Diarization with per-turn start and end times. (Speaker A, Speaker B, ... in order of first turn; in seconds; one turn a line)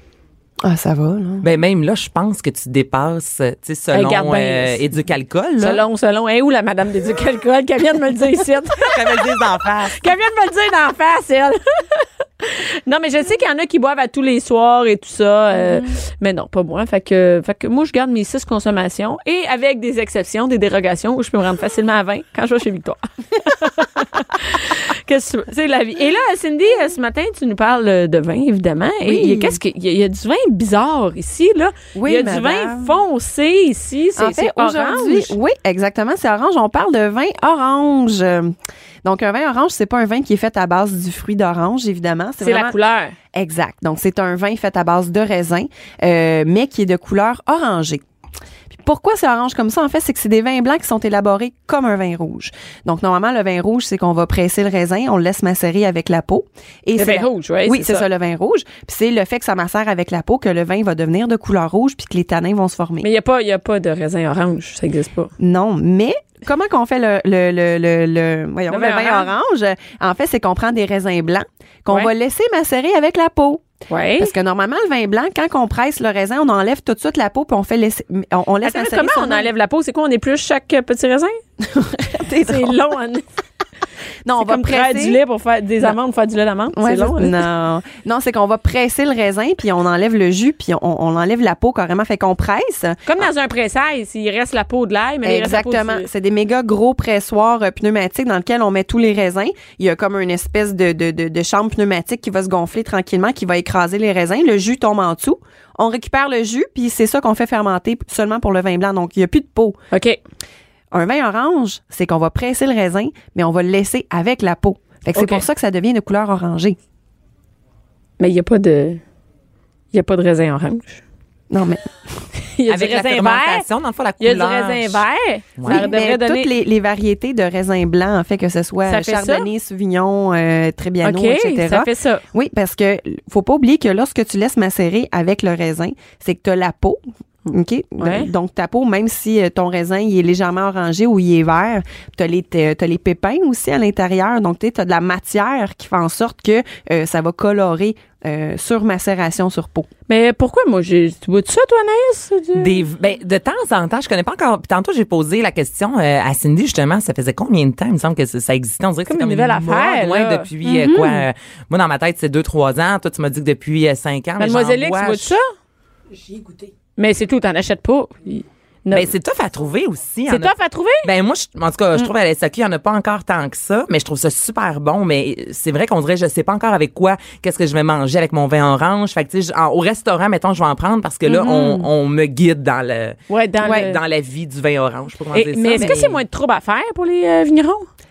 Speaker A: 0.6-1.5
Speaker B: 1.4-5.8
Speaker C: 3.9-4.8
Speaker C: 5.6-9.3
Speaker B: 8.8-10.0
Speaker C: 9.9-35.3
Speaker A: 29.0-29.6
Speaker A: 31.9-33.0
Speaker A: 34.1-42.8
Speaker C: 42.4-43.1
Speaker A: 43.3-48.0
Speaker A: 48.7-63.1
Speaker C: 57.0-58.0
Speaker C: 63.0-65.3
Speaker A: 65.4-73.6
Speaker C: 68.7-69.3
Speaker C: 73.9-74.3
Speaker A: 74.2-79.5
Speaker C: 78.6-81.4
Speaker A: 81.6-82.8
Speaker C: 82.4-83.2
Speaker A: 84.2-85.2
Speaker C: 84.4-87.3
Speaker A: 86.7-93.1
Speaker C: 93.0-96.1
Speaker A: 95.2-109.8
Speaker C: 109.9-110.2
Speaker A: 110.9-116.8
Speaker C: 115.2-115.4
Speaker C: 118.2-119.0
Speaker C: 119.9-121.0
Speaker A: 121.5-121.8
Speaker C: 122.4-123.7
Speaker B: 122.7-125.0
Speaker C: 124.2-126.5
Speaker B: 125.6-125.8
Speaker A: 125.7-149.9
Speaker C: 128.8-129.5
Speaker C: 131.0-132.2
Speaker C: 138.0-138.3
Speaker C: 150.1-152.8
Speaker B: 152.5-165.4
Speaker C: 159.1-161.0
Speaker A: 160.6-161.2
Speaker C: 164.4-165.4
Speaker C: 167.0-169.1
Speaker B: 168.9-186.1
Speaker C: 170.3-171.1
Speaker A: 181.2-181.9
Speaker C: 183.3-184.0
Speaker C: 185.3-187.9
Speaker A: 185.8-186.1